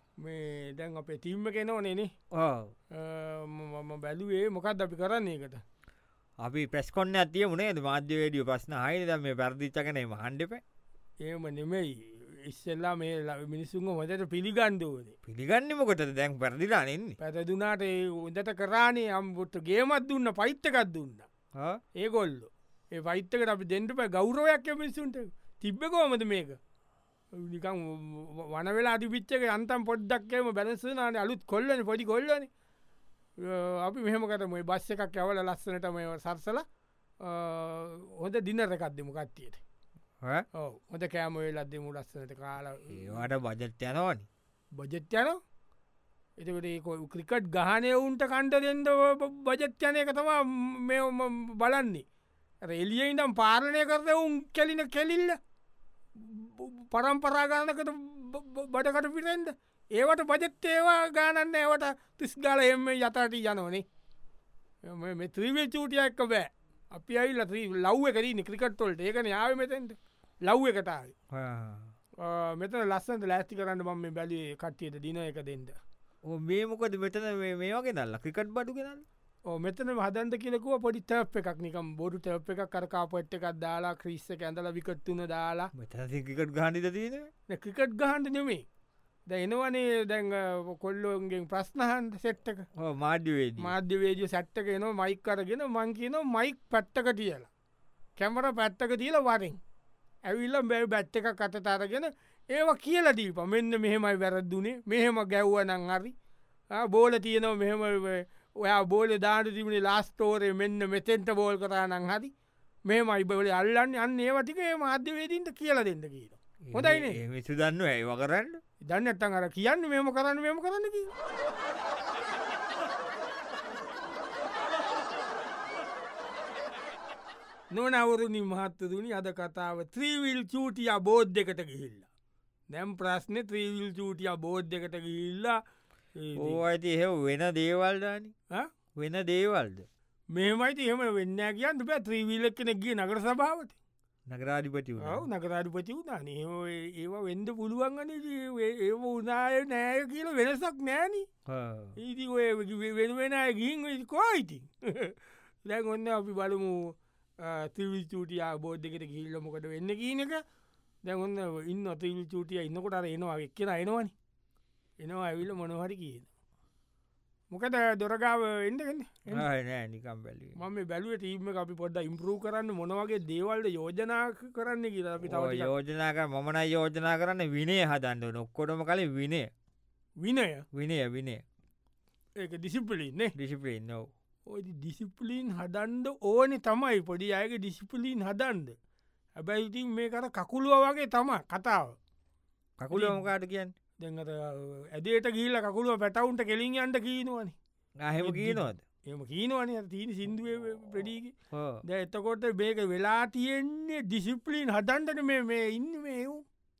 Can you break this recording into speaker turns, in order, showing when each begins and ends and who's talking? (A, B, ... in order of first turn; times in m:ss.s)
0:00.2-0:02.1 A
0:02.3-0:02.7 B
0:02.9-0:05.6 A
0:06.4-0:10.6 B
0:11.2-0:15.1 A
0:15.2-0:17.2 B
0:17.2-0:21.3 A
0:21.5-0:21.8 B
0:22.0-0:26.6 A
0:27.3-0:32.5 A
0:33.4-0:36.6 A
0:37.2-0:39.6 A
0:40.5-0:43.2 A
0:42.9-0:44.3 B
0:44.8-0:45.4 A
0:46.4-0:52.0 A
0:52.7-0:55.4 A
0:56.1-1:03.8 A
1:04.8-1:11.1 A
1:11.3-1:11.9 B
1:12.2-1:15.8 A
1:16.2-1:19.0 B
1:19.5-1:25.7 A
1:25.7-1:27.3 B
1:27.5-1:28.6 A
1:29.3-1:32.6 A
1:32.8-1:33.7 B
1:33.6-1:37.5 A
1:38.2-1:39.6 A
1:40.2-1:46.1 A
1:46.7-1:52.3 A
1:52.9-1:57.2 A
1:56.7-1:58.6 B
1:58.8-2:01.1 A
2:07.7-2:12.1 A
2:12.7-2:15.6 A
2:16.2-2:16.6 A
2:16.4-2:18.3 B
2:19.0-2:19.8 B
2:20.3-2:23.8 A
2:24.3-2:25.3 B
2:25.0-2:31.3 A
2:31.5-2:32.0 B
2:32.0-2:40.4 A
2:41.0-2:44.1 A
2:45.0-2:46.3 A
2:47.5-2:49.4 A
2:49.3-2:50.6 B
2:50.6-2:55.7 A
2:55.2-2:59.5 B
3:00.2-3:00.6 A
3:00.7-3:01.4 B
3:02.4-3:03.3 A
3:03.4-3:04.1 B
3:04.5-3:08.7 A
3:09.4-3:12.0 A
3:12.8-3:13.7 B
3:12.9-3:13.2 A
3:14.0-3:17.6 A
3:18.0-3:18.8 B
3:18.2-3:21.3 A
3:21.5-3:21.8 B
3:21.8-3:26.4 A